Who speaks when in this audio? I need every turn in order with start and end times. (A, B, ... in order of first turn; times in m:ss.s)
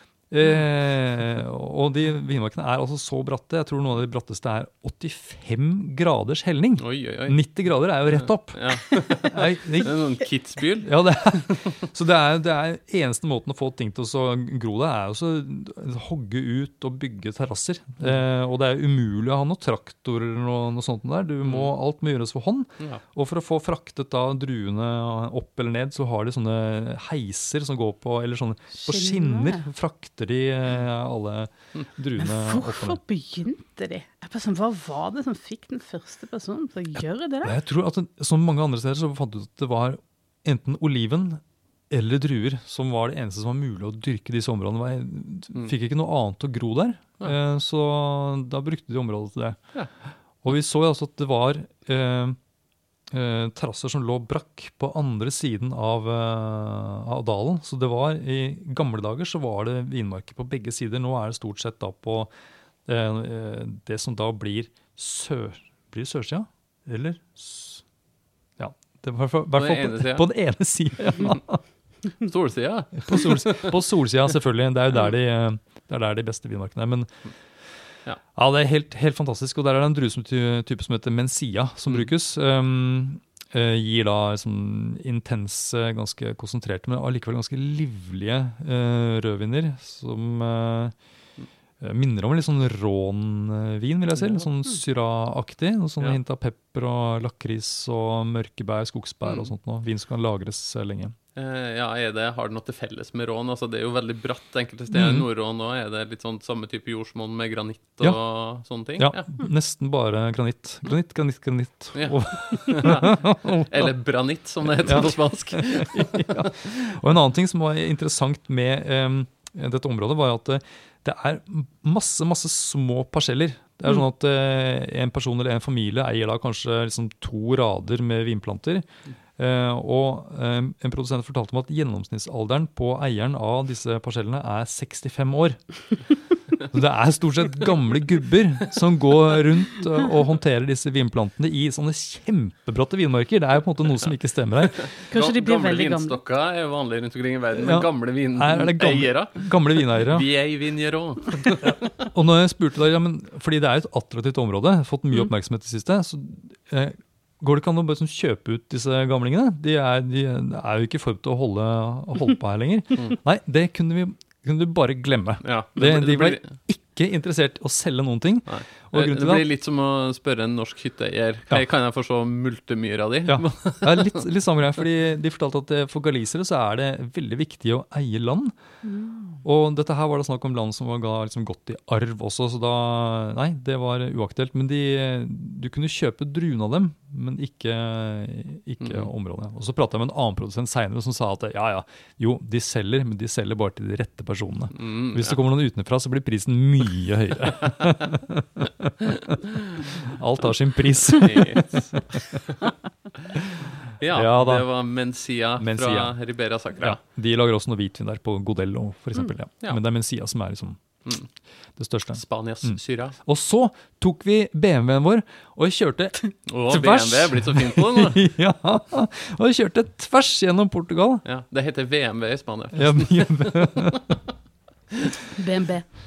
0:00.3-0:10.0 A
0:06.8-0:11.8 B
0:10.8-0:33.0 A
0:21.4-0:21.7 B
0:28.7-0:29.6 C
0:32.2-0:37.6 C
0:37.4-0:49.6 A
0:50.4-0:52.4 A
0:53.1-1:02.3 A
1:02.9-1:07.8 A
1:08.6-1:11.6 A
1:09.6-1:10.3 B
1:12.2-1:13.8 B
1:13.0-1:17.1 A
1:18.4-1:31.0 A
1:31.8-1:41.2 A
1:34.2-1:34.5 B
1:39.2-1:39.5 B
1:41.4-1:49.3 B
1:44.9-1:45.3 A
1:49.0-1:53.9 A
1:52.0-1:56.7 B
1:54.7-2:08.9 A
2:09.4-2:16.1 A
2:16.7-2:24.9 A
2:24.7-2:32.1 B
2:25.1-2:26.2 C
2:27.6-2:30.3 A
2:31.6-2:49.4 A
2:45.4-2:46.5 B
2:48.5-2:54.2 B
2:53.3-2:58.5 A
2:58.8-2:59.4 C
2:59.4-3:22.2 A
3:08.8-3:09.1 B
3:14.8-3:15.4 B
3:21.1-3:23.4 B
3:23.4-3:24.7 A
3:24.0-3:27.0 B
3:25.6-3:26.2 A
3:26.8-3:30.8 A
3:31.8-3:41.2 A
3:32.2-3:33.2 B
3:36.5-3:38.2 B
3:41.2-3:44.3 B
3:42.7-3:44.1 A
3:44.9-3:45.2 B
3:45.4-3:45.9 C